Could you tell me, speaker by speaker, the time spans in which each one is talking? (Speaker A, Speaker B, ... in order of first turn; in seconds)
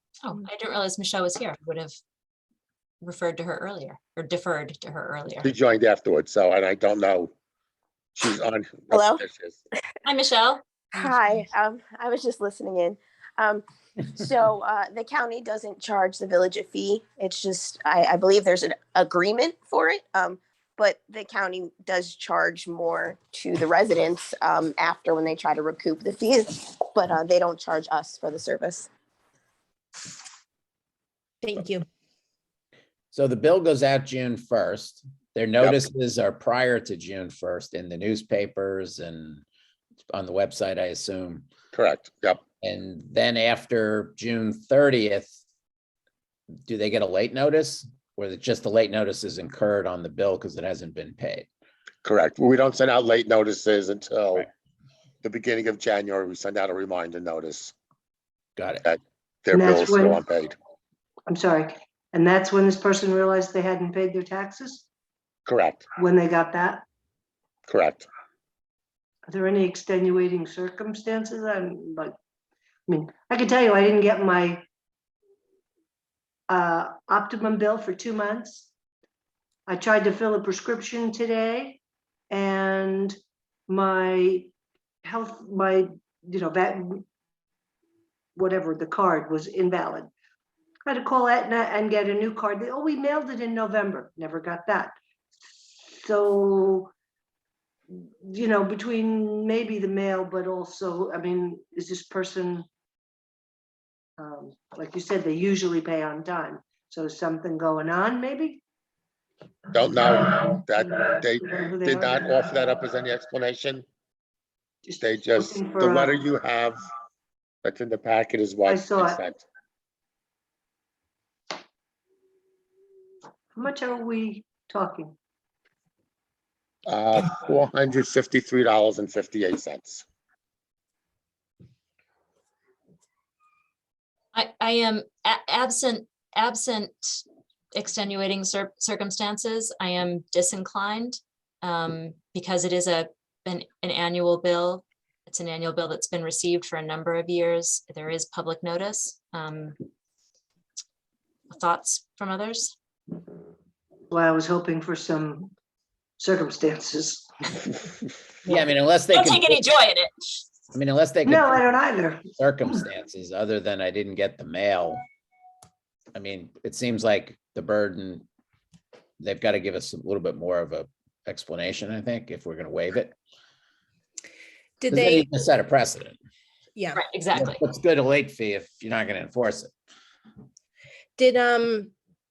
Speaker A: 0.2-2.0, 3.0-5.5, 10.1-10.6, 134.3-137.2, 137.8-149.8, 151.5-152.7, 158.5-160.4, 176.9-177.6
Speaker B: 5.4-7.3, 8.2-9.6, 41.7-42.4, 52.0-54.5, 55.2-57.7, 58.8-60.5, 65.5-65.8, 67.7-68.1, 109.7-113.9, 115.0-116.8, 117.6-119.4, 126.9-130.1
Speaker C: 8.9-9.2, 10.9-28.9
Speaker D: 31.4-31.9, 174.8-175.3, 176.8-177.0, 181.2-181.9
Speaker E: 33.1-39.5, 40.1-41.5, 42.6-45.3, 46.6-51.5, 58.6-58.8, 158.5-159.7, 160.7-161.6, 162.4-165.0, 166.1-168.3, 169.2-173.2, 174.9-176.2, 177.3-179.7
Speaker F: 59.5-60.2, 61.3-64.9, 66.0-66.8, 69.3-72.2, 72.9-74.7, 76.5-78.7, 79.7-83.2, 83.7-84.5, 85.0-87.0, 88.3-90.1, 90.9-95.0, 95.8-96.9, 97.9-102.7, 104.2-108.6, 110.8-112.3, 114.8-116.2, 118.7-119.2, 123.5-125.2, 154.1-155.5, 156.2-157.3, 161.2-162.8